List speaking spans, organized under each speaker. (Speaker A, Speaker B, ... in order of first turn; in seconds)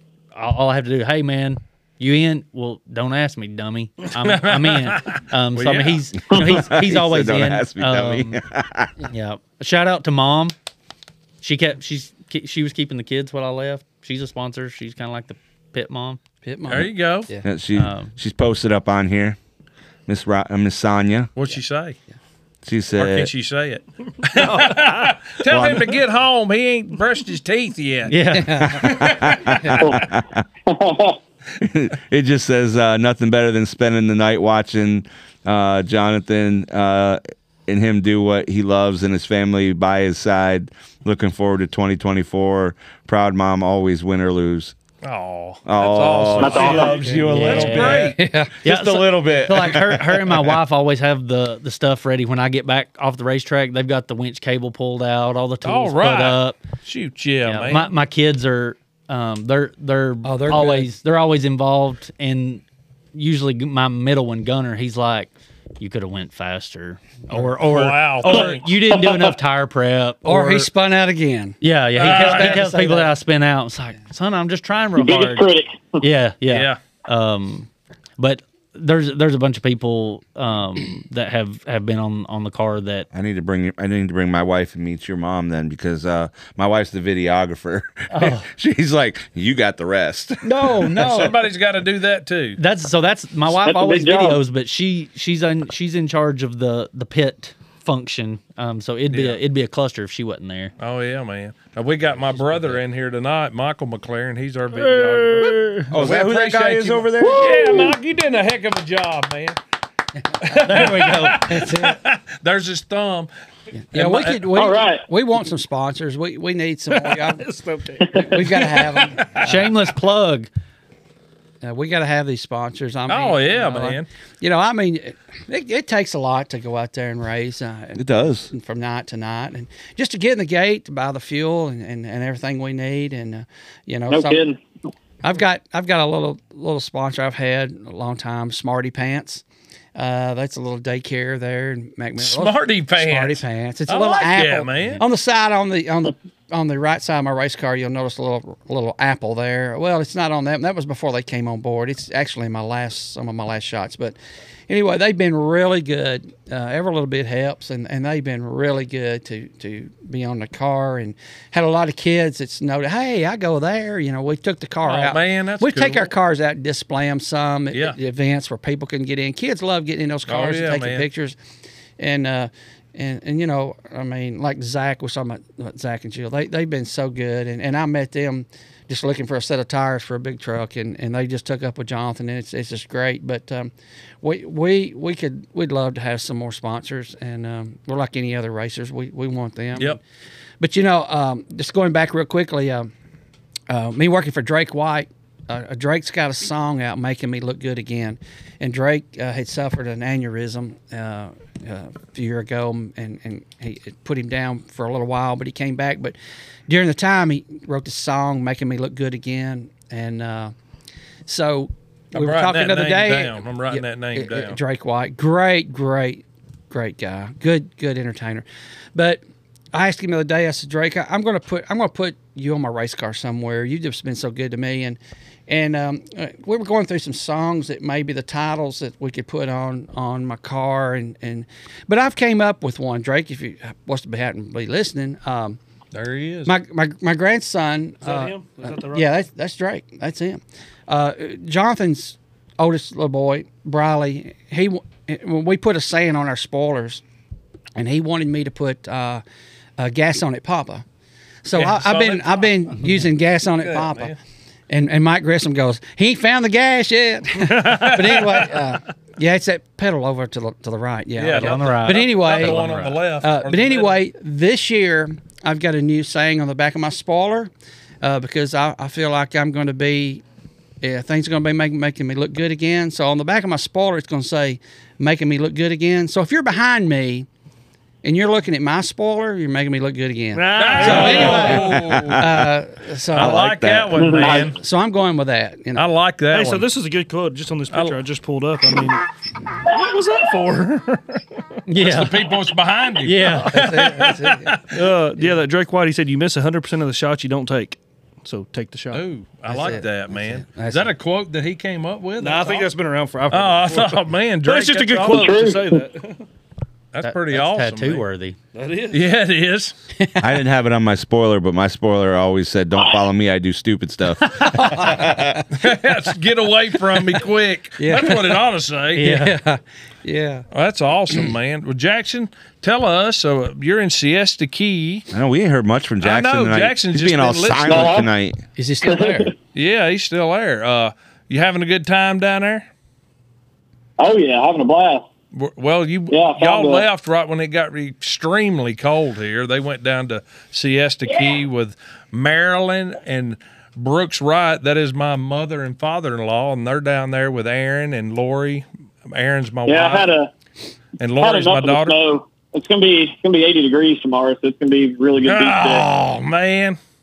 Speaker A: 0.3-8.4, 9.1-10.5, 11.4-16.2, 17.8-18.1, 28.1-28.8, 47.2-56.6, 57.5-62.6, 63.1-70.7, 71.6-75.5, 76.0-83.1, 88.1-88.5, 90.4-91.4, 92.6-100.7, 102.3-102.8, 110.6-111.7, 119.4-120.5, 261.3-263.1, 291.7-292.3, 293.0-293.6, 307.0-308.4, 319.0-319.3
Speaker B: 4.2-6.0, 16.7-17.3, 21.4-22.0, 22.9-29.6, 45.0-48.2, 55.6-57.9, 67.6-68.6, 72.0-72.7, 76.5-76.8, 91.0-92.6, 99.1-99.4, 100.8-109.6, 110.4-113.3, 113.9-114.5, 118.8-119.7, 123.1-124.1, 142.2-145.0, 164.8-166.1, 167.7-168.0, 170.3-171.1, 212.1-214.6, 235.9-236.5, 251.5-252.9, 253.6-254.2, 257.5-258.5, 261.2-264.0, 280.6-282.2, 283.1-284.6, 285.8-286.7, 287.7-288.0, 291.8-294.6, 298.9-302.7, 303.3-305.4, 306.9-308.1, 308.9-309.8, 315.5-319.2, 320.5-325.1, 326.0-328.0, 329.5-332.7, 335.3-350.1, 351.0-352.0, 355.2-356.8
Speaker C: 6.3-8.9, 17.4-19.4, 20.1-21.3, 22.6-23.3, 25.5-25.9, 28.8-30.4, 31.6-44.8, 45.7-50.6, 83.1-91.3, 105.9-107.6, 128.0-128.5, 281.7-282.4, 283.1-284.0, 310.2-315.4, 325.1-328.4
Speaker D: 16.4-17.5, 28.3-29.8, 47.0-47.3, 48.0-48.6, 60.2-60.9, 70.2-73.1, 111.5-112.0, 113.8-117.4, 118.2-119.7, 121.6-134.4, 135.2-139.4, 140.0-154.2, 154.7-171.4, 172.0-190.0, 190.6-192.9, 193.7-206.2, 206.7-210.5, 211.3-235.6, 236.5-247.0, 247.8-249.2, 249.8-250.8, 251.4-254.2, 254.7-267.5, 268.0-270.2, 270.8-277.3, 278.0-283.4, 284.1-285.9, 293.5-294.6, 299.5-300.9, 310.0-310.3, 314.4-315.5, 317.8-318.4, 319.0-320.5, 328.6-329.3
Speaker E: 24.3-25.2, 104.7-106.0, 116.9-118.8, 238.0-239.1, 280.3-281.7, 286.3-289.1, 289.6-291.2, 294.7-299.0, 302.2-306.2, 308.5-309.0
Speaker F: 29.8-30.1, 30.7-31.2, 46.4-47.0, 68.9-69.3, 75.0-76.0, 93.6-94.4, 107.2-107.9, 114.5-115.0, 134.1-134.6, 284.0-284.5, 305.1-305.7, 327.7-328.1, 328.8-329.3, 334.0-335.1, 336.1-336.9, 349.7-350.3, 351.2-355.9